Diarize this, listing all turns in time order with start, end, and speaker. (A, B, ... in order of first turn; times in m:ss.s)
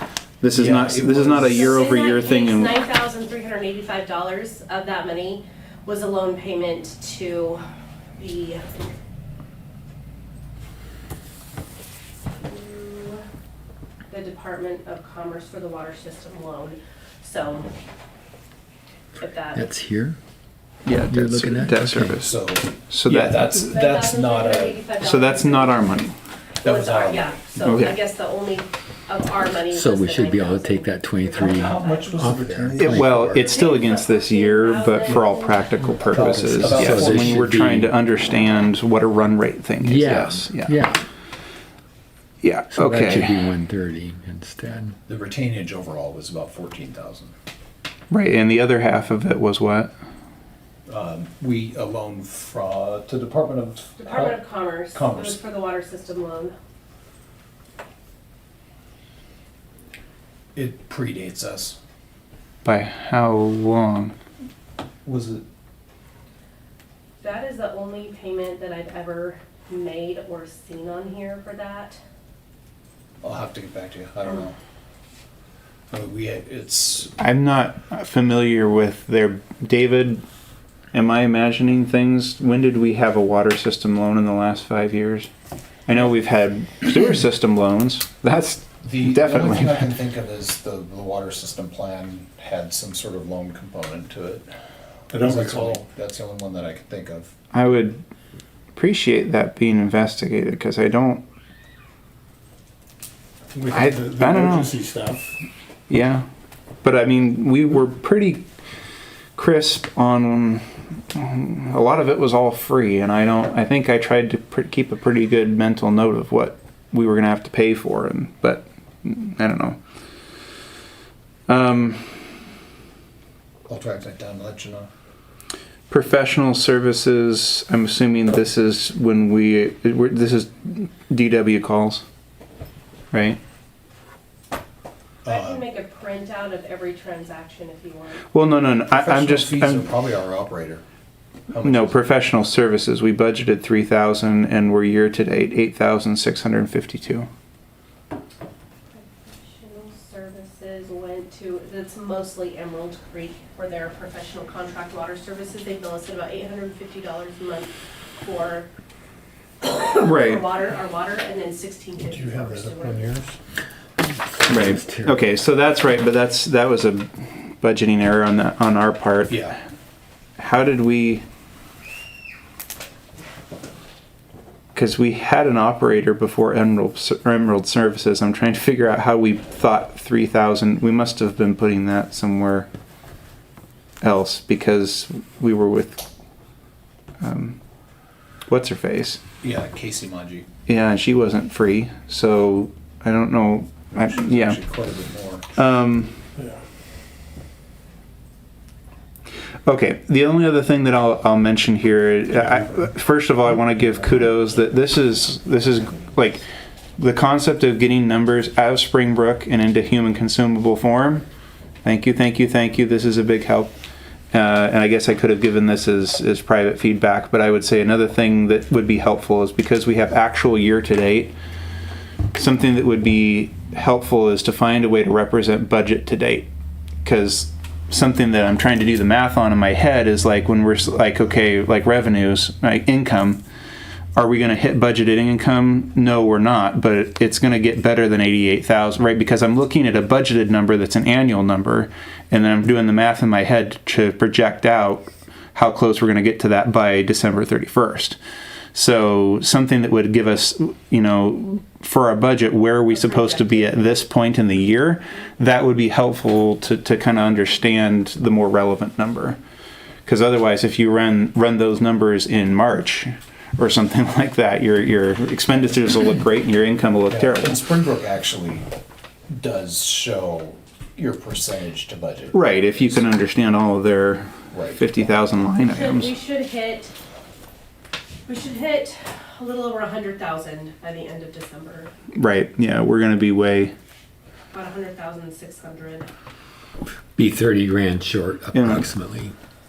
0:00.4-0:02.7 A
0:00.5-0:01.8 B
0:01.6-0:07.6 C
0:08.2-0:08.9 C
0:12.3-0:13.2 C
0:14.1-0:17.7 C
0:19.2-0:19.7 C
0:19.5-0:20.2 D
0:20.8-0:22.4 A
0:21.0-0:22.2 D
0:22.2-0:24.8 B
0:22.9-0:23.7 A
0:23.7-0:26.1 C
0:25.0-0:26.2 A
0:26.6-0:27.9 B
0:26.6-0:32.4 C
0:27.6-0:28.0 A
0:29.7-0:33.3 D
0:31.4-0:32.9 B
0:31.7-0:33.5 E
0:32.8-0:40.8 A
0:33.3-0:36.3 C
0:35.9-0:38.0 D
0:36.1-0:37.4 B
0:39.8-0:41.0 D
0:42.4-0:43.3 A
0:42.7-0:45.0 D
0:45.1-0:47.3 B
0:48.1-0:49.9 A
0:50.9-0:54.4 B
0:54.0-0:56.6 C
0:54.9-0:55.4 B
1:00.6-1:01.8 B
1:02.6-1:04.2 A
1:05.0-1:05.4 B
1:07.2-1:12.0 C
1:13.2-1:14.6 B
1:15.9-1:17.1 B
1:17.2-1:20.2 A
1:20.9-1:25.3 A
1:25.9-1:29.9 A
1:28.8-1:34.5 B
1:35.1-1:37.3 B
1:35.1-1:35.8 E
1:37.5-1:38.0 A
1:38.8-1:41.2 A
1:43.5-1:45.4 E
1:43.7-1:44.7 A
1:45.9-1:46.2 A
1:46.8-1:48.5 A
1:49.4-1:59.8 A
2:01.5-2:02.2 A
2:03.7-2:04.9 B
2:05.9-2:12.0 A
2:13.1-2:13.4 A
2:15.2-2:15.6 B
2:15.3-2:18.2 C
2:18.3-2:19.9 A
2:19.0-2:20.8 B
2:21.5-2:22.1 B
2:21.6-2:27.3 A
2:28.9-2:38.7 C
2:39.6-2:43.2 C
2:40.0-2:40.4 A
2:42.0-2:43.3 E
2:44.4-2:45.2 D
2:44.5-2:49.5 A
2:49.3-2:49.6 B
2:50.4-2:51.2 A
2:54.7-3:02.7 A
3:04.0-3:06.0 A
3:07.2-3:07.6 A
3:08.5-3:09.2 A
3:09.4-3:10.5 B
3:10.7-3:14.6 A
3:14.0-3:15.5 B
3:15.6-3:16.2 A
3:19.7-3:26.4 A
3:27.0-3:31.2 A
3:31.8-3:33.7 A
3:34.3-3:41.3 A
3:42.3-3:46.5 A
3:47.0-3:53.4 A
3:54.2-4:08.2 A
4:08.8-4:19.4 A
4:12.9-4:14.0 C
4:20.0-4:27.6 A
4:27.1-4:28.6 B
4:29.3-4:33.1 B
4:32.3-4:36.1 A
4:34.5-4:34.8 B
4:35.6-4:36.9 C
4:38.3-4:41.9 C
4:42.1-4:43.7 A
4:44.5-4:46.1 C
4:47.2-4:49.3 D
4:48.5-4:48.9 A